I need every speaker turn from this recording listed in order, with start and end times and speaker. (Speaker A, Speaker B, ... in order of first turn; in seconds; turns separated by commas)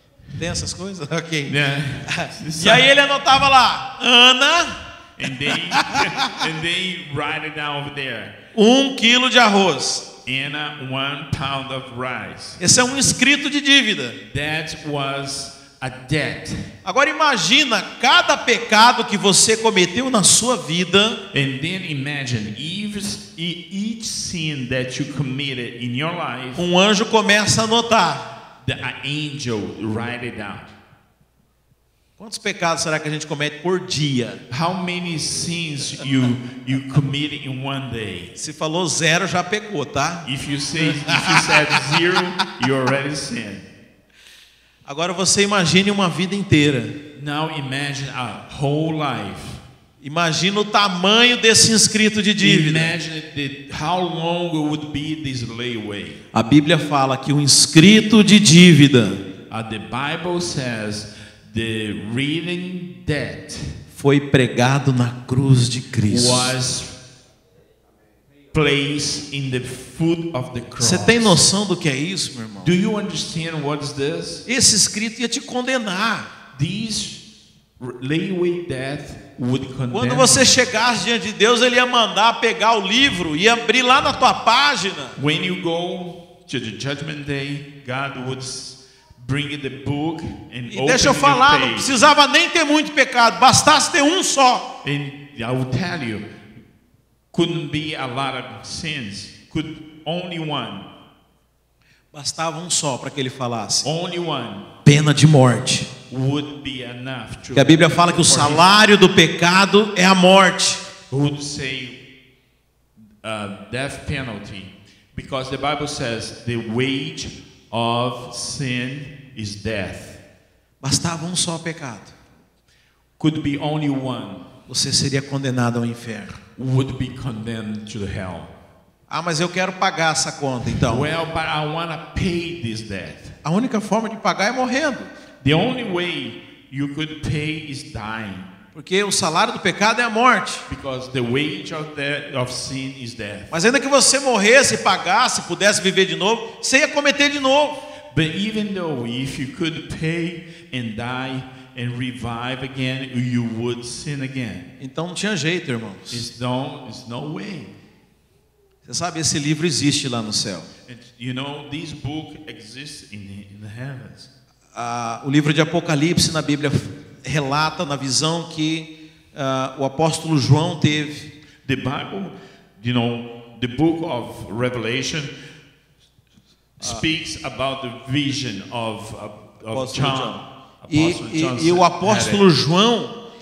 Speaker A: 0.4-1.5, Speaker B: 1.5-2.9, Speaker A: 2.1-6.4, Speaker B: 5.2-8.3, Speaker A: 8.5-10.0, Speaker B: 10.2-12.6, Speaker A: 12.6-14.2, Speaker B: 14.3-16.6, Speaker A: 16.8-21.2, Speaker B: 21.3-26.6, Speaker A: 26.6-28.3, Speaker B: 28.6-30.7, Speaker A: 32.2-34.4, Speaker B: 34.5-38.3, Speaker A: 38.3-40.2, Speaker B: 40.2-43.7, Speaker A: 40.8-42.4, Speaker A: 44.9-47.0, Speaker B: 47.1-49.6, Speaker A: 50.0-52.9, Speaker B: 52.4-56.2, Speaker A: 56.3-59.2, Speaker B: 59.5-63.8, Speaker A: 63.9-66.5, Speaker B: 66.1-67.0, Speaker B: 68.5-71.4, Speaker A: 70.8-72.7, Speaker B: 72.6-74.4, Speaker A: 74.5-76.3, Speaker B: 76.5-77.2, Speaker B: 77.8-80.5, Speaker A: 79.9-85.2, Speaker B: 85.2-92.0, Speaker A: 90.7-94.7, Speaker B: 94.8-96.2, Speaker B: 97.3-100.9, Speaker A: 102.1-103.9, Speaker B: 103.8-104.7, Speaker A: 104.8-105.9, Speaker B: 106.1-108.7, Speaker A: 107.5-110.8, Speaker B: 111.1-112.0, Speaker B: 113.2-120.2, Speaker A: 120.8-122.1, Speaker B: 123.2-124.4, Speaker A: 124.7-126.3, Speaker B: 126.5-128.5, Speaker A: 129.1-131.1, Speaker B: 130.7-133.3, Speaker A: 133.4-135.1, Speaker B: 135.4-138.5, Speaker A: 138.7-140.6, Speaker B: 140.7-143.5, Speaker A: 143.5-147.8, Speaker B: 148.1-154.6, Speaker A: 154.8-156.2, Speaker B: 156.1-157.7, Speaker A: 158.8-160.7, Speaker B: 160.8-164.3, Speaker A: 164.7-171.3, Speaker B: 171.6-175.3, Speaker B: 176.8-182.4, Speaker A: 179.7-183.2